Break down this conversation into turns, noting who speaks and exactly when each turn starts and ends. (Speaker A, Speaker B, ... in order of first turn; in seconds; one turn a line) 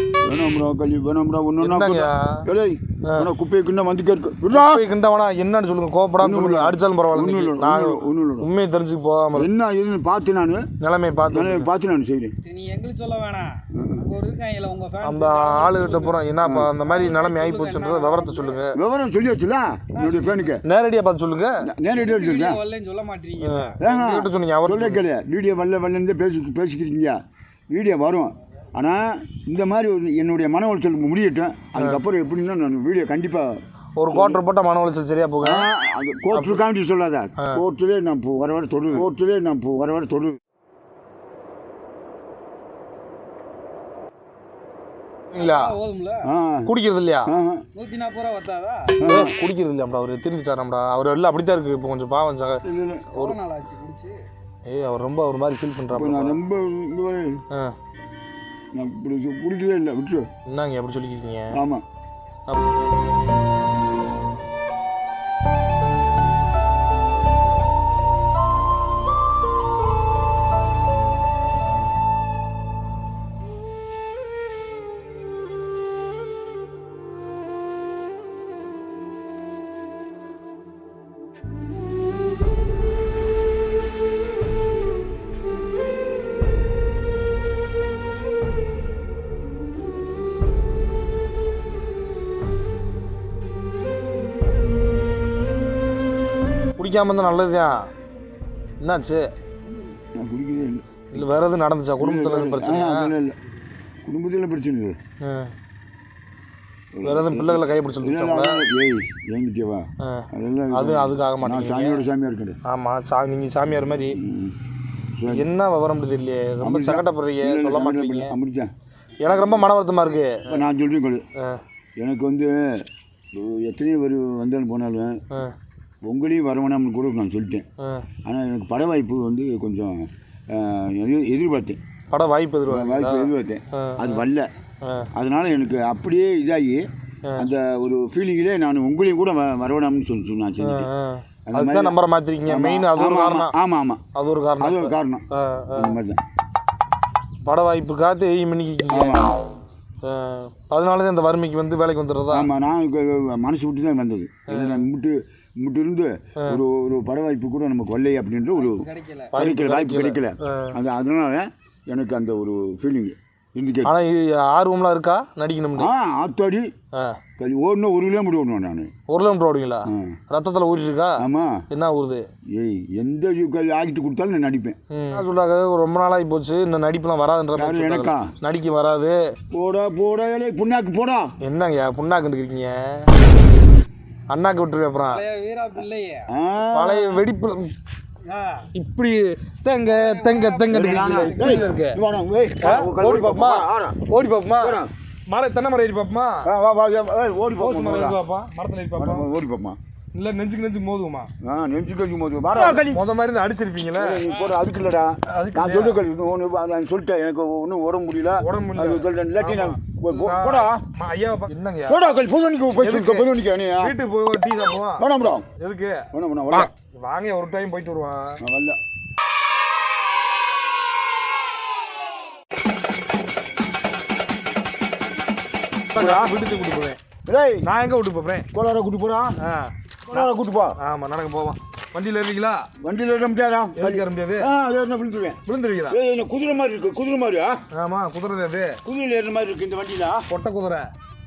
Speaker A: 0.2-4.8
Speaker B: 1.6-2.5
Speaker B: 4.5-9.5
Speaker A: 6.2-8.5
Speaker A: 9.3-10.7
Speaker B: 10.8-11.7
Speaker A: 11.3-12.3
Speaker C: 12.4-16.2
Speaker A: 13.7-14.1
Speaker B: 15.0-18.7
Speaker A: 16.4-16.7
Speaker C: 16.9-18.6
Speaker A: 18.7-20.6
Speaker C: 20.0-20.5
Speaker B: 20.6-21.6
Speaker A: 21.6-22.6
Speaker C: 21.9-23.9
Speaker B: 23.4-25.0
Speaker A: 23.8-34.4
Speaker B: 31.7-32.0
Speaker B: 34.0-35.7
Speaker A: 35.4-40.4
Speaker B: 36.3-36.6
Speaker B: 45.3-45.7
Speaker C: 45.3-46.3
Speaker A: 46.2-46.7
Speaker B: 46.7-47.3
Speaker A: 47.3-47.6
Speaker C: 47.7-49.0
Speaker A: 49.0-49.3
Speaker B: 49.0-52.6
Speaker A: 52.6-53.1
Speaker C: 53.1-54.1
Speaker B: 54.6-56.4
Speaker A: 55.9-57.4
Speaker A: 58.7-60.3
Speaker B: 60.5-61.6
Speaker A: 61.5-61.8
Speaker B: 96.8-97.8
Speaker B: 98.8-99.2
Speaker A: 100.2-101.2
Speaker B: 101.1-103.1
Speaker A: 102.0-103.4
Speaker A: 104.0-105.0
Speaker B: 105.2-105.5
Speaker A: 106.9-112.6
Speaker B: 107.0-108.6
Speaker B: 110.0-112.0
Speaker B: 112.7-114.2
Speaker A: 114.2-114.5
Speaker A: 115.2-115.5
Speaker B: 115.3-118.3
Speaker A: 116.6-118.7
Speaker B: 119.2-120.6
Speaker A: 119.3-119.7
Speaker A: 120.4-121.2
Speaker A: 122.0-125.2
Speaker A: 126.0-127.6
Speaker B: 127.8-128.1
Speaker A: 128.2-131.8
Speaker B: 132.1-134.2
Speaker A: 132.7-134.5
Speaker B: 134.8-135.1
Speaker A: 135.1-136.8
Speaker A: 137.4-140.9
Speaker B: 140.6-143.5
Speaker A: 141.5-144.0
Speaker B: 144.1-145.9
Speaker A: 144.6-146.2
Speaker B: 147.4-149.2
Speaker A: 148.9-149.4
Speaker B: 150.0-152.5
Speaker A: 152.3-163.9
Speaker B: 154.5-154.8
Speaker C: 158.6-159.3
Speaker B: 159.3-160.7
Speaker B: 163.8-165.9
Speaker A: 165.8-166.7
Speaker A: 167.4-168.9
Speaker B: 169.1-172.2
Speaker A: 169.9-170.2
Speaker A: 171.2-171.6
Speaker A: 172.5-174.8
Speaker B: 174.9-179.3
Speaker A: 177.6-178.3
Speaker A: 179.5-181.3
Speaker B: 181.4-183.1
Speaker B: 184.3-185.2
Speaker C: 185.1-186.3
Speaker A: 186.3-187.2
Speaker B: 186.7-187.7
Speaker C: 188.2-188.7
Speaker B: 188.7-192.0
Speaker C: 189.9-191.7
Speaker A: 190.7-194.0
Speaker B: 192.6-196.5
Speaker A: 194.6-194.9
Speaker A: 196.4-198.2
Speaker B: 197.6-199.2
Speaker A: 199.0-199.8
Speaker B: 200.1-201.3
Speaker A: 201.4-203.0
Speaker B: 202.5-204.2
Speaker A: 204.0-210.8
Speaker B: 205.3-206.0
Speaker B: 208.4-212.0
Speaker A: 211.9-213.9
Speaker B: 212.8-213.3
Speaker B: 213.8-215.1
Speaker A: 215.0-215.4
Speaker B: 215.6-216.1
Speaker A: 216.1-216.7
Speaker B: 217.0-218.4
Speaker A: 218.4-218.8
Speaker B: 225.9-227.0
Speaker A: 225.9-226.3
Speaker A: 227.3-227.6
Speaker B: 227.6-228.5
Speaker A: 228.5-229.3
Speaker B: 229.4-232.7
Speaker A: 230.1-230.8
Speaker A: 232.8-237.6
Speaker B: 233.8-234.5
Speaker B: 235.4-236.0
Speaker B: 237.7-238.8
Speaker A: 238.8-240.2
Speaker B: 240.3-240.9